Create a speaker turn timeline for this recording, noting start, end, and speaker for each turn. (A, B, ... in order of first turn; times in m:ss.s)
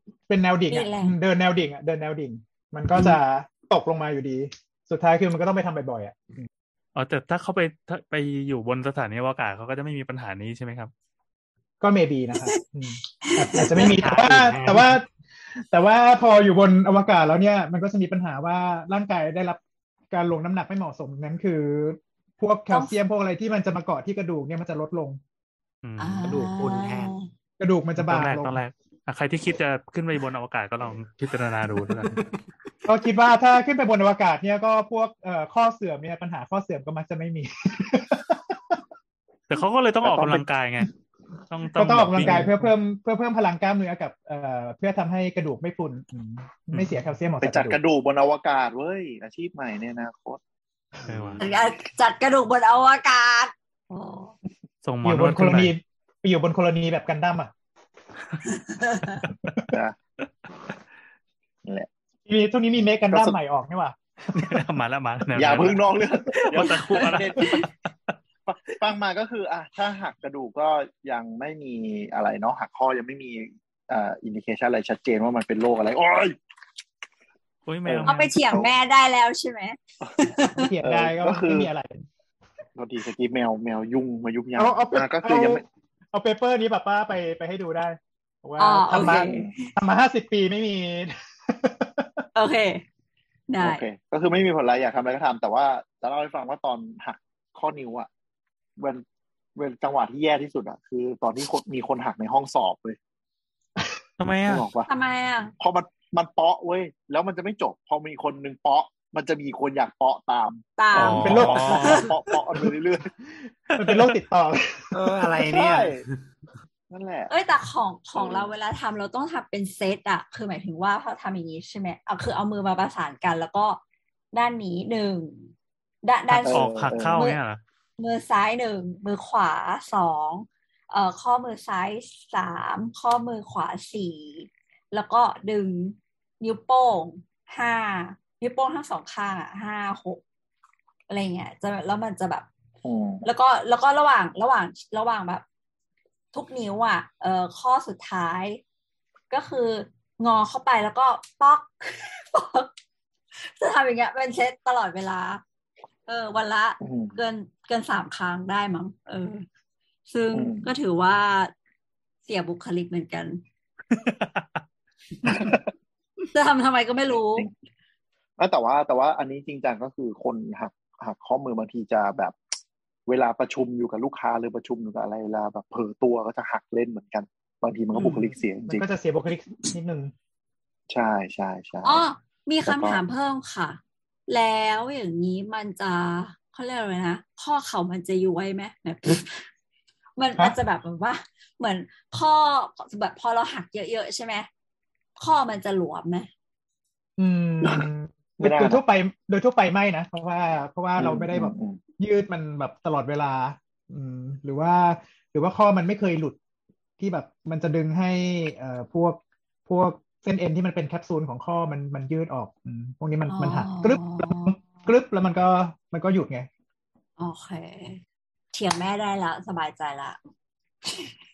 0:00.3-0:06.5 A
0:00.7-0:01.2 B
0:06.9-0:10.9 C
0:11.8-0:15.0 A
0:13.2-0:13.9 B
0:13.8-0:15.0 D
0:15.6-0:19.6 A
0:20.1-0:25.2 A
0:22.7-0:23.0 B
0:25.8-0:26.4 C
0:26.0-0:27.3 B
0:26.3-0:27.1 D
0:27.6-0:28.6 A
0:27.9-0:32.2 C
0:32.0-0:32.4 D
0:32.8-0:38.8 A
0:39.5-0:40.9 C
0:40.0-0:40.8 A
0:41.5-0:42.6 C
0:41.7-0:47.8 A
0:46.7-0:47.0 C
0:47.4-0:50.4 E
0:51.0-0:51.4 C
0:51.1-0:51.4 E
0:51.4-0:54.3 B
0:54.8-0:55.7 C
0:55.0-0:57.5 A
0:58.6-0:59.2 B
0:59.2-0:59.5 C
1:02.2-1:04.5 A
1:03.1-1:03.4 E
1:04.3-1:08.1 C
1:05.3-1:07.7 E
1:08.4-1:16.4 E
1:17.6-1:18.3 C
1:17.8-1:18.7 E
1:18.0-1:20.7 B
1:20.6-1:22.0 A
1:20.8-1:21.7 E
1:22.8-1:25.6 E
1:24.6-1:32.2 A
1:28.6-1:29.7 B
1:29.2-1:29.5 E
1:32.3-1:32.8 B
1:33.5-1:33.8 B
1:33.6-1:38.1 E
1:39.6-1:43.0 E
1:44.2-1:44.7 C
1:44.5-1:44.9 E
1:44.9-1:45.5 B
1:45.6-1:50.6 E
1:50.8-1:52.0 B
1:50.9-1:52.0 C
1:51.0-1:52.1 A
1:51.2-1:53.1 E
1:53.3-1:55.0 A
1:53.8-1:54.1 C
1:54.9-1:56.2 D
1:55.4-1:56.0 E
1:56.9-1:57.3 E
1:57.3-2:03.8 B
1:58.1-1:58.5 E
2:04.3-2:05.5 B
2:06.0-2:07.4 B
2:06.3-2:07.6 C
2:06.4-2:07.2 E
2:08.0-2:20.2 B
2:21.1-2:22.4 B
2:22.8-2:23.2 E
2:23.2-2:25.4 B
2:26.3-2:28.6 B
2:29.3-2:32.7 B
2:33.4-2:35.4 B
2:36.0-2:39.4 B
2:36.8-2:37.2 E
2:40.1-2:41.5 B
2:40.3-2:40.7 E
2:42.2-2:43.4 B
2:44.1-2:44.6 C
2:45.2-2:45.6 E
2:46.3-2:47.5 B
2:47.1-2:47.5 E
2:48.4-2:52.4 E
2:53.1-2:58.8 E
2:58.0-3:00.1 A
3:00.9-3:02.0 E
3:01.8-3:09.5 B
3:02.6-3:03.0 E
3:10.2-3:14.5 B
3:15.2-3:16.3 B
3:17.2-3:26.4 A
3:17.6-3:17.9 E
3:18.4-3:18.8 E
3:21.0-3:21.8 E
3:27.0-3:36.5 A
3:33.3-3:34.6 B
3:37.2-3:38.0 B
3:38.5-3:40.2 B